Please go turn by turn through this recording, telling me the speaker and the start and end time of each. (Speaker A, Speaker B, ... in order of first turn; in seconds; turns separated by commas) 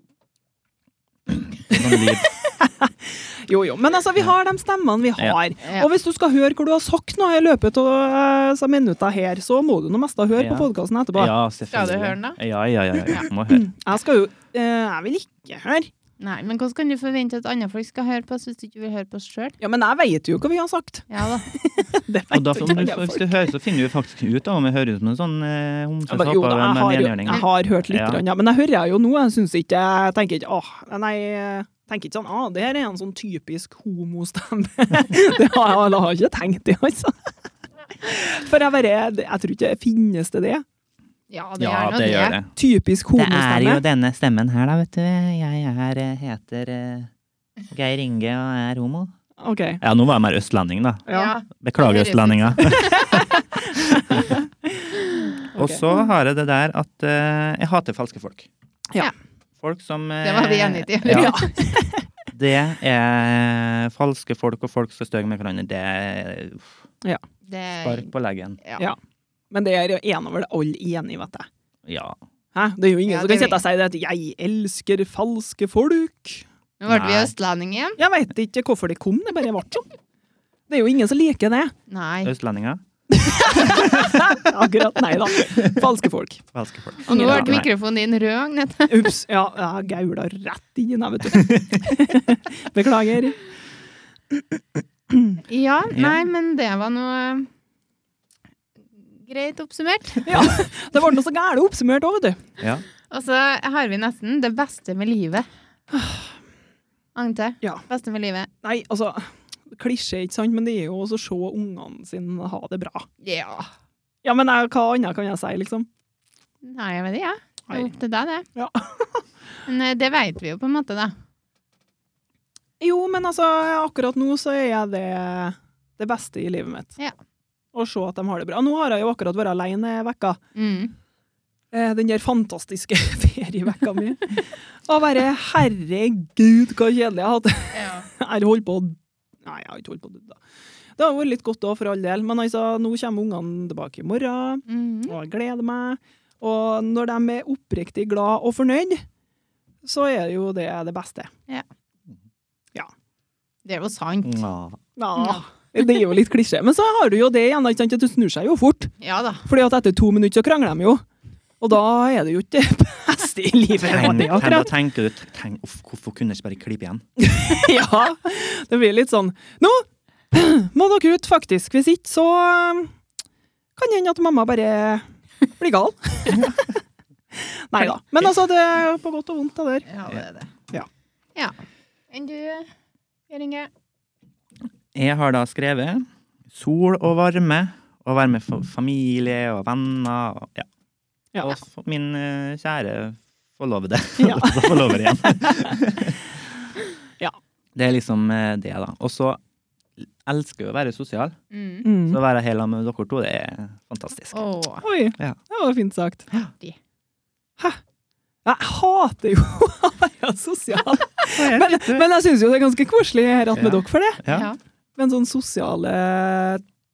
Speaker A: 1.3-2.3, Speaker B: 1.7-11.3, Speaker C: 5.6-5.9, Speaker A: 10.4-13.7, Speaker C: 11.7-12.4, Speaker B: 13.5-15.9, Speaker C: 16.2-19.6, Speaker B: 19.6-23.4, Speaker C: 21.1-21.4, Speaker A: 22.3-28.2, Speaker B: 26.1-37.3, Speaker B: 38.0-40.6, Speaker C: 41.3-42.4, Speaker A: 41.6-42.5, Speaker B: 42.5-43.8, Speaker A: 43.1-47.1, Speaker A: 47.7-49.1, Speaker B: 49.4-49.8, Speaker A: 49.8-53.2, Speaker B: 51.1-51.3, Speaker C: 51.1-53.3, Speaker B: 52.7-54.4, Speaker B: 55.5-55.8, Speaker A: 55.5-58.5, Speaker A: 59.6-61.4, Speaker C: 60.2-61.5, Speaker B: 61.0-62.0, Speaker A: 62.3-66.8, Speaker C: 67.4-68.1, Speaker A: 67.8-68.6, Speaker C: 68.6-68.9, Speaker B: 69.5-71.5, Speaker A: 71.8-72.2, Speaker B: 72.5-76.4, Speaker C: 73.1-73.6, Speaker C: 76.8-78.0, Speaker A: 76.9-77.3, Speaker B: 78.0-79.8, Speaker B: 80.7-81.7, Speaker C: 81.9-82.3, Speaker A: 82.2-82.8, Speaker B: 83.1-86.5, Speaker A: 83.7-84.0, Speaker A: 86.5-87.7, Speaker C: 87.0-89.1, Speaker B: 87.1-87.6, Speaker B: 88.9-93.4, Speaker C: 95.5-97.5, Speaker A: 95.9-96.2, Speaker C: 99.1-100.5, Speaker B: 100.2-102.4, Speaker C: 103.1-105.5, Speaker B: 105.9-106.3, Speaker C: 107.1-108.5, Speaker B: 108.6-113.1, Speaker C: 113.2-113.7, Speaker B: 114.2-115.9, Speaker C: 116.6-118.5, Speaker B: 118.5-119.2, Speaker C: 119.6-121.1, Speaker B: 122.8-127.0, Speaker B: 127.7-130.4, Speaker C: 130.5-130.9, Speaker B: 131.7-140.4, Speaker C: 137.7-138.1, Speaker B: 141.0-149.0, Speaker C: 144.7-145.2, Speaker B: 149.8-151.3, Speaker C: 153.6-154.4, Speaker A: 154.2-154.8, Speaker B: 155.0-161.0, Speaker C: 155.1-155.4, Speaker C: 159.0-159.4, Speaker B: 161.6-164.7, Speaker A: 163.8-167.0, Speaker B: 167.2-172.9, Speaker B: 173.8-176.7, Speaker A: 176.3-176.6, Speaker B: 177.3-179.9, Speaker C: 179.9-180.5, Speaker C: 182.1-182.7, Speaker C: 183.3-183.7, Speaker A: 184.9-190.7, Speaker A: 191.4-196.2, Speaker B: 194.2-195.8, Speaker A: 197.7-199.4, Speaker A: 200.0-201.3, Speaker C: 201.5-201.9, Speaker B: 201.8-202.2, Speaker A: 202.0-204.4, Speaker C: 204.3-204.8, Speaker B: 204.8-206.3, Speaker B: 208.4-214.2, Speaker A: 211.3-212.1, Speaker A: 213.5-214.5, Speaker C: 214.3-214.6, Speaker B: 215.0-216.6